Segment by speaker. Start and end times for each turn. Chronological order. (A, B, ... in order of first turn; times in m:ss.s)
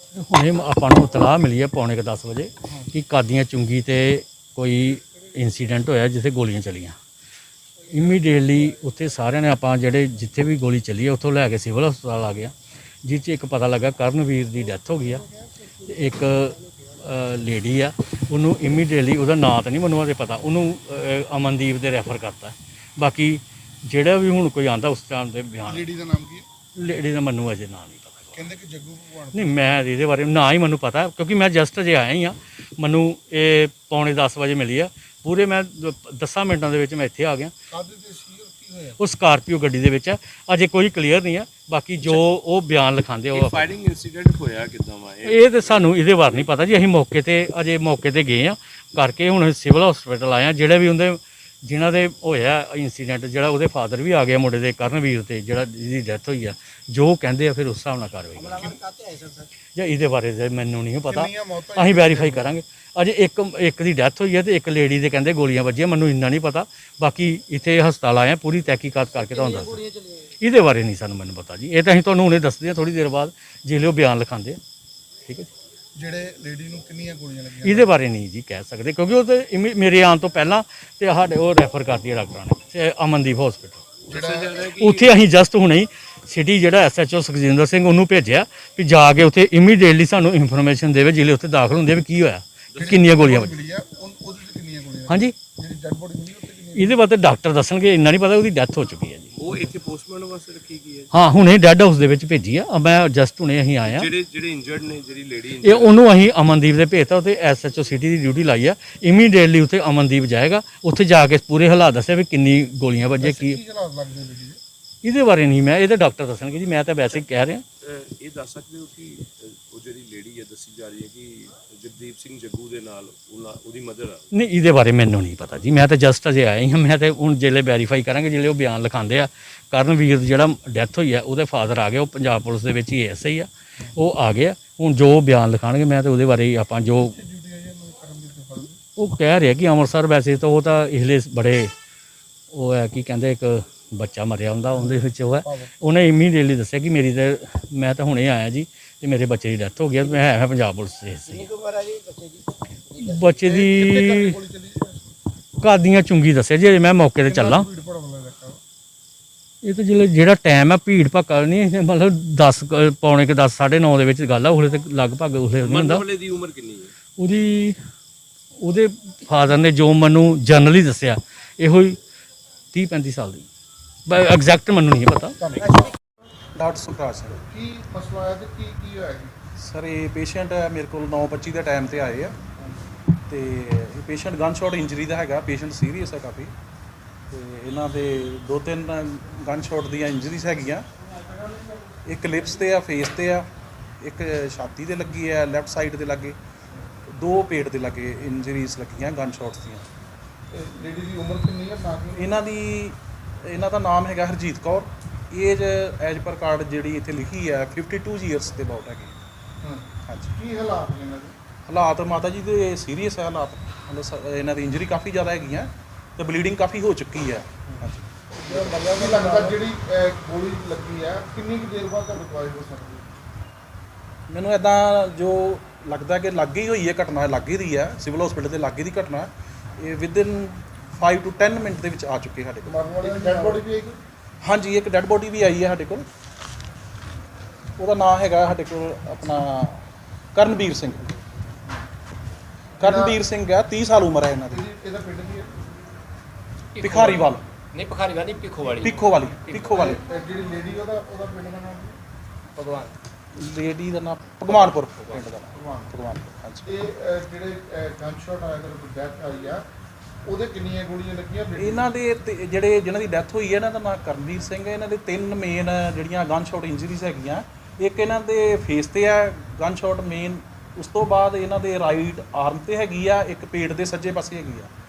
0:00.1-0:07.0 A
0:07.9-0:12.5 A
0:13.0-0:15.3 A
0:15.8-0:25.9 A
0:25.7-0:26.5 B
0:26.8-0:28.4 A
0:28.3-0:29.8 B
0:29.3-0:37.5 A
0:37.7-0:39.0 B
0:39.0-0:43.7 A
0:43.3-0:46.5 C
0:45.2-0:58.8 A
0:58.4-0:59.5 D
0:59.8-1:14.6 A
1:01.1-1:02.5 B
1:09.5-1:10.2 D
1:16.0-1:17.9 B
1:17.6-1:23.9 A
1:24.1-1:25.2 C
1:24.1-1:24.5 B
1:24.7-1:33.6 A
1:32.8-1:37.0 B
1:35.1-1:35.4 A
1:36.8-1:39.3 A
1:39.4-1:41.1 C
1:41.1-1:44.1 A
1:43.8-1:46.0 C
1:45.6-1:53.6 A
1:53.2-1:54.6 B
1:55.0-1:57.6 A
1:57.8-2:04.3 C
2:04.3-2:17.1 A
2:17.0-2:18.8 B
2:19.0-2:21.7 A
2:22.5-2:31.5 A
2:24.8-2:25.7 B
2:31.4-2:33.2 D
2:33.0-2:34.4 A
2:33.4-2:35.1 B
2:35.6-2:37.7 A
2:37.2-2:38.6 B
2:39.6-2:46.1 A
2:45.6-2:46.9 C
2:47.2-2:47.8 A
2:48.6-2:52.0 A
2:52.7-2:53.5 A
2:54.1-2:55.4 A
2:55.4-2:55.9 B
2:56.6-2:57.4 E
2:57.4-2:59.4 B
2:59.6-3:02.4 E
3:03.3-3:06.5 E
3:07.3-3:10.8 E
3:12.0-3:13.5 E
3:14.0-3:16.4 E
3:17.1-3:19.9 E
3:20.5-3:22.3 B
3:22.2-3:29.1 E
3:29.6-3:31.4 B
3:30.1-3:30.4 E
3:31.7-3:38.1 E
3:38.4-3:43.2 B
3:38.6-3:39.5 D
3:44.3-3:53.6 E
3:52.6-3:54.0 B
3:54.4-3:56.1 E
3:57.8-3:59.8 E
4:00.4-4:01.1 E
4:02.8-4:04.6 E
4:02.8-4:03.2 B
4:04.5-4:05.5 B
4:06.8-4:09.8 D
4:06.8-4:07.5 E
4:08.8-4:10.0 E
4:09.6-4:12.0 B
4:12.6-4:12.9 D
4:13.4-4:16.6 E
4:15.5-4:15.9 B
4:16.6-4:19.6 B
4:20.2-4:21.9 B
4:21.6-4:34.7 E